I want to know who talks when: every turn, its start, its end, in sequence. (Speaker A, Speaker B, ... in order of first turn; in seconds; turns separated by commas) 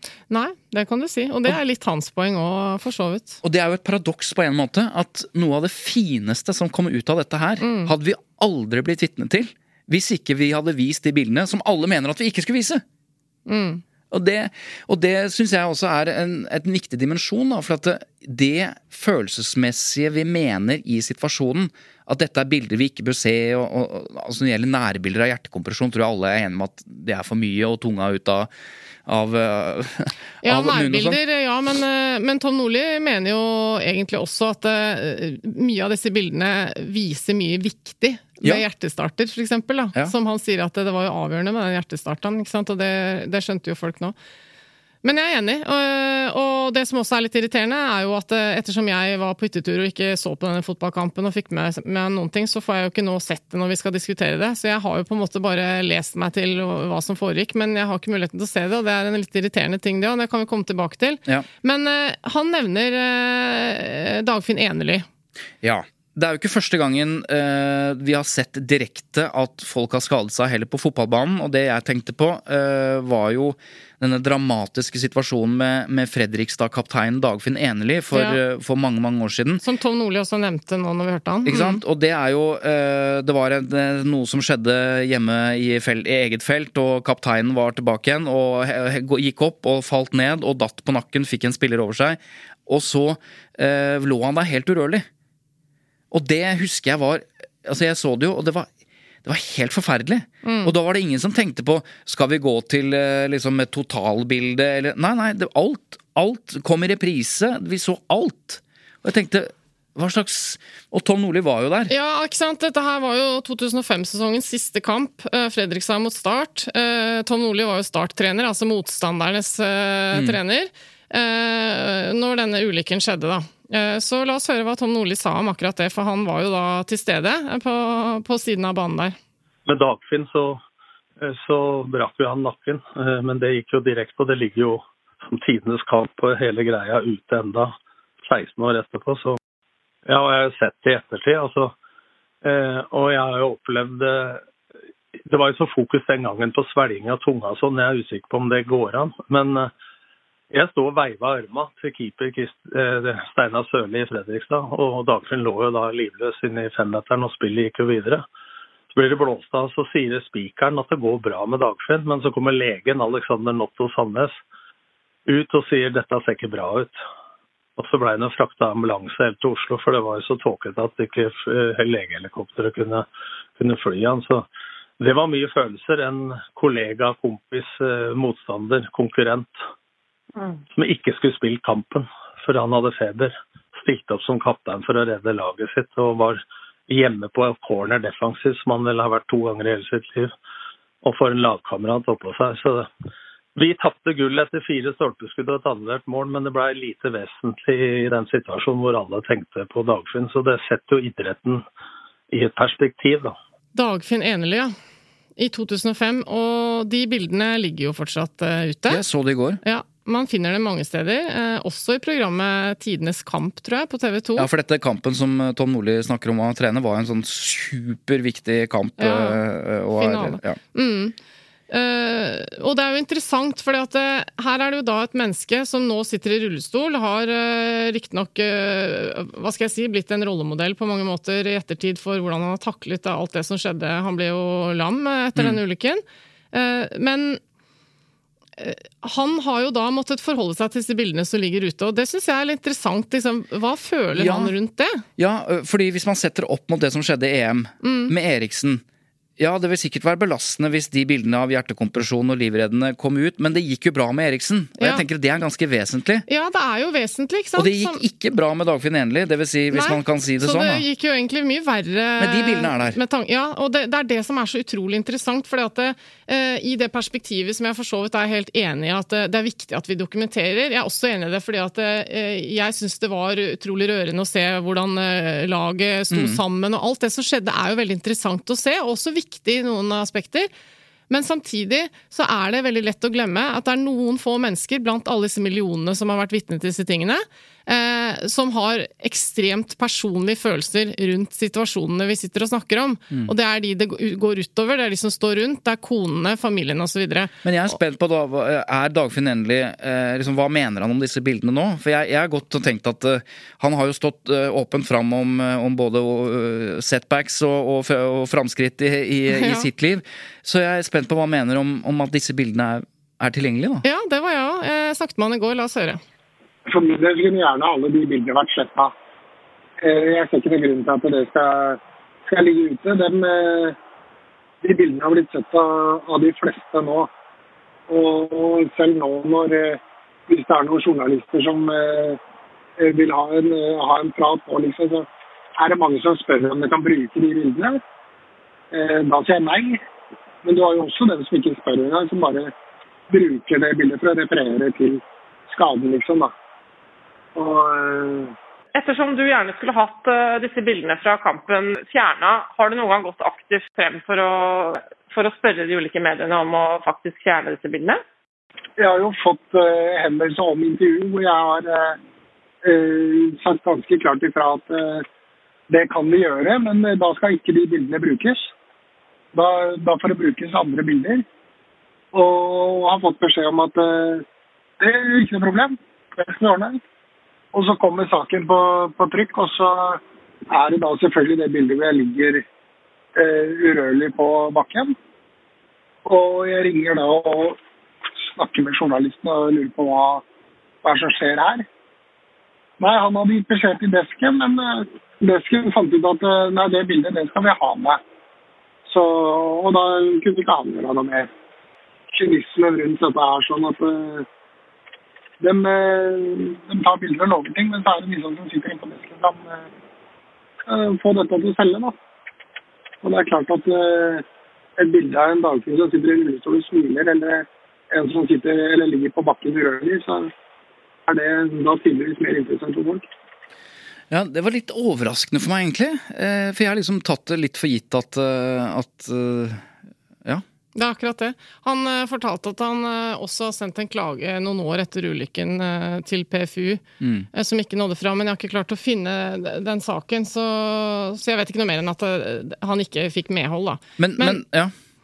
Speaker A: 0.3-3.4, Speaker B: 3.4-12.8, Speaker A: 7.6-7.9, Speaker A: 13.5-13.8, Speaker B: 14.1-28.5, Speaker B: 29.1-31.2, Speaker A: 30.4-44.1, Speaker A: 45.0-65.1, Speaker B: 65.6-79.6, Speaker A: 78.1-78.4, Speaker A: 79.6-81.8, Speaker B: 81.5-95.1, Speaker B: 96.1-98.7, Speaker B: 99.2-111.9, Speaker A: 100.4-100.7, Speaker A: 111.9-129.2, Speaker C: 129.7-130.6, Speaker C: 131.2-139.4, Speaker C: 140.1-141.7, Speaker C: 142.4-144.4, Speaker C: 145.3-149.7, Speaker C: 150.5-158.3, Speaker C: 158.9-164.4, Speaker C: 165.3-167.0, Speaker C: 167.8-174.5, Speaker C: 175.0-179.6, Speaker C: 180.7-190.3, Speaker C: 191.0-192.9, Speaker C: 193.6-201.7, Speaker C: 202.3-203.4, Speaker A: 203.7-204.7, Speaker A: 205.4-209.0, Speaker B: 208.9-209.6, Speaker A: 209.6-214.5, Speaker B: 214.4-220.6, Speaker A: 219.0-219.4, Speaker A: 219.9-221.2, Speaker A: 221.7-237.4, Speaker A: 238.6-245.0, Speaker B: 244.1-244.5, Speaker B: 245.2-248.8, Speaker A: 247.8-248.1, Speaker B: 249.4-256.3, Speaker A: 254.8-255.0, Speaker A: 256.3-258.0, Speaker B: 257.6-260.9, Speaker A: 259.7-280.5, Speaker B: 262.2-263.0, Speaker B: 276.1-276.4, Speaker A: 281.1-297.3, Speaker B: 297.4-313.9, Speaker A: 309.3-309.7, Speaker A: 313.8-316.0, Speaker D: 316.7-318.9, Speaker D: 319.8-323.8, Speaker D: 324.6-327.1, Speaker D: 327.9-332.2, Speaker D: 332.8-335.1, Speaker D: 335.6-337.8, Speaker D: 338.7-339.8, Speaker D: 340.4-342.5, Speaker D: 343.1-346.3, Speaker D: 347.4-348.3, Speaker E: 348.7-358.0, Speaker D: 358.8-362.0, Speaker D: 362.6-365.1, Speaker D: 365.7-368.5, Speaker D: 369.3-371.2, Speaker D: 372.1-374.2, Speaker D: 374.8-376.8, Speaker D: 377.5-382.4, Speaker D: 383.2-384.9, Speaker D: 386.1-387.6, Speaker D: 388.4-390.2, Speaker D: 390.8-391.7, Speaker D: 392.8-398.0, Speaker D: 398.9-401.3, Speaker D: 402.1-404.3, Speaker D: 405.4-409.7, Speaker D: 410.7-412.0, Speaker D: 413.0-414.2, Speaker D: 414.8-420.3, Speaker D: 421.1-423.1, Speaker B: 424.1-429.7, Speaker A: 430.8-436.8, Speaker B: 437.0-437.3, Speaker A: 437.3-444.4, Speaker B: 444.0-444.7